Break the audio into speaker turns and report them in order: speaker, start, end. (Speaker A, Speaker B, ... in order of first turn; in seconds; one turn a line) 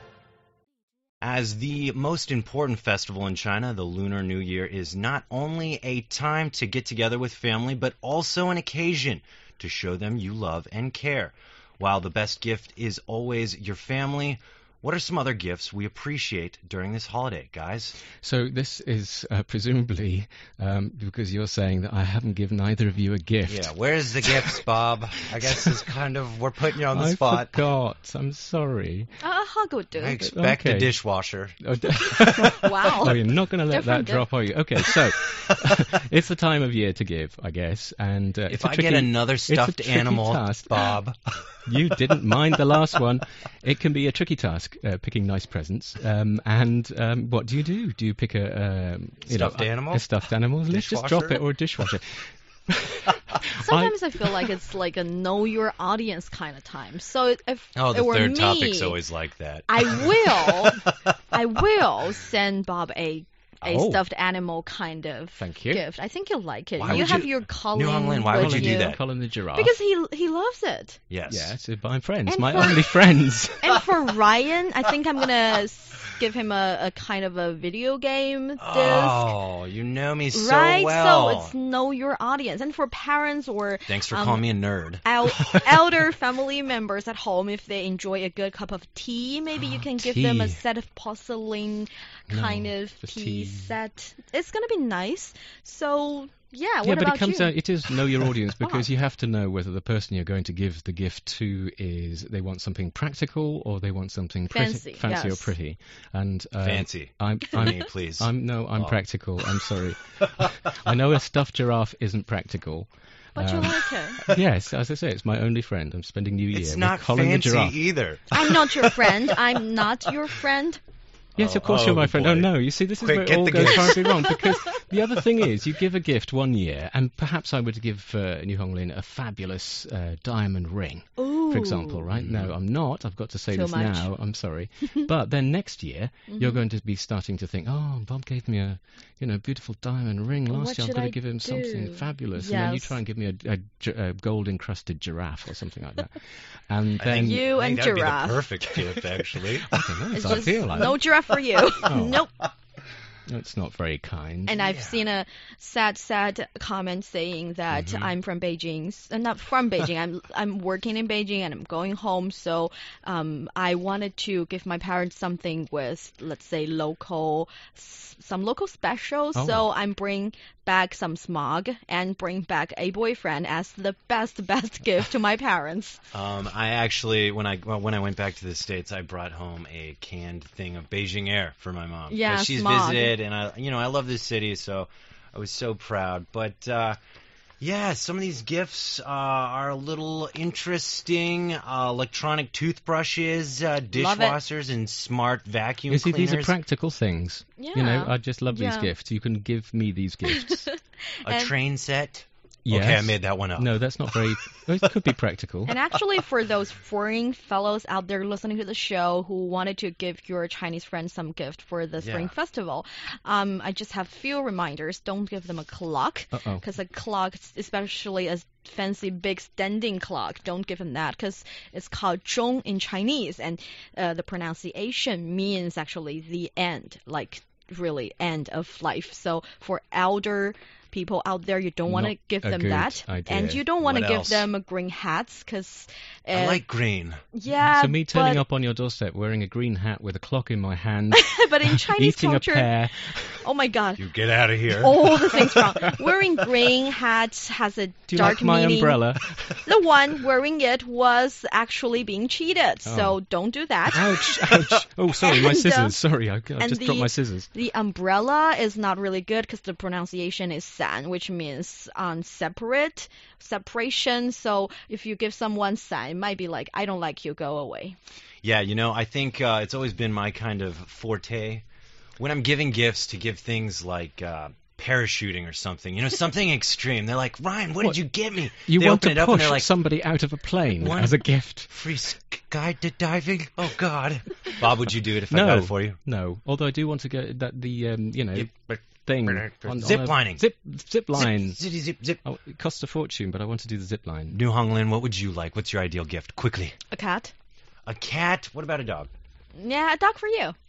Speaker A: 1.2-18.0
Speaker B: 18.2-24.6
Speaker A: 23.5-27.6
Speaker B: 25.5-25.8
Speaker B: 26.9-29.1
Speaker C: 29.2-30.2
Speaker A: 30.0-31.6
Speaker B: 30.2-31.0
Speaker B: 31.6-41.0
Speaker C: 32.3-34.3
Speaker A: 38.5-41.2
Speaker B: 41.6-52.1
Speaker A: 49.3-50.1
Speaker A: 50.7-51.4
Speaker B: 52.7-53.9
Speaker C: 53.5-59.0
Speaker A: 57.8-60.8
Speaker C: 59.7-69.0
Speaker B: 63.6-64.0
Speaker B: 65.4-65.8
Speaker A: 66.8-69.0
Speaker B: 66.8-67.3
Speaker B: 68.3-69.7
Speaker C: 69.5-71.0
Speaker A: 71.1-71.5
Speaker B: 71.3-73.7
Speaker C: 72.3-72.9
Speaker C: 73.6-79.3
Speaker A: 78.6-81.5
Speaker C: 80.3-84.4
Speaker A: 83.9-85.0
Speaker C: 85.0-97.5
Speaker B: 89.7-90.6
Speaker B: 92.3-93.8
Speaker B: 96.8-117.8
Speaker C: 98.6-98.9
Speaker C: 104.5-105.5
Speaker A: 106.6-109.0
Speaker C: 113.3-114.2
Speaker A: 116.5-119.6
Speaker C: 118.3-120.8
Speaker B: 121.3-147.4
Speaker A: 121.4-124.1
Speaker C: 124.0-124.5
Speaker C: 131.2-132.0
Speaker A: 132.1-132.5
Speaker C: 133.5-134.1
Speaker C: 136.3-136.6
Speaker C: 140.5-143.0
Speaker A: 147.0-149.7
Speaker C: 147.2-148.5
Speaker B: 149.7-151.0
Speaker C: 150.2-152.3
Speaker A: 150.2-150.6
Speaker B: 151.8-152.2
Speaker B: 153.3-154.6
Speaker C: 154.5-176.0
Speaker A: 154.6-155.1
Speaker A: 157.7-158.1
Speaker B: 169.3-169.7
Speaker A: 176.1-187.0
Speaker C: 182.1-183.2
Speaker A: 187.6-196.5
Speaker C: 193.9-194.4
Speaker B: 195.9-200.7
Speaker C: 197.6-198.9
Speaker C: 200.3-201.5
Speaker A: 201.2-203.7
Speaker B: 202.7-205.8
Speaker C: 205.7-236.6
Speaker A: 212.0-212.3
Speaker B: 216.3-216.6
Speaker B: 231.9-233.6
Speaker A: 233.8-234.5
Speaker A: 236.3-237.2
Speaker C: 237.3-238.4
Speaker B: 237.6-243.4
Speaker C: 241.1-242.7
Speaker C: 243.4-244.1
Speaker A: 244.0-245.4
Speaker C: 244.7-249.0
Speaker B: 248.1-249.6
Speaker C: 249.6-254.2
Speaker B: 252.8-253.2
Speaker B: 253.9-257.5
Speaker C: 255.2-256.0
Speaker C: 256.6-267.9
Speaker A: 268.4-271.6
Speaker A: 272.2-279.7
Speaker B: 278.6-281.7
Speaker A: 280.8-286.0
Speaker B: 285.3-291.6
Speaker A: 288.3-290.4
Speaker A: 291.1-292.2
Speaker B: 292.2-294.4
Speaker A: 294.3-296.8
Speaker C: 296.9-297.3
Speaker A: 297.9-299.1
Speaker C: 299.5-300.5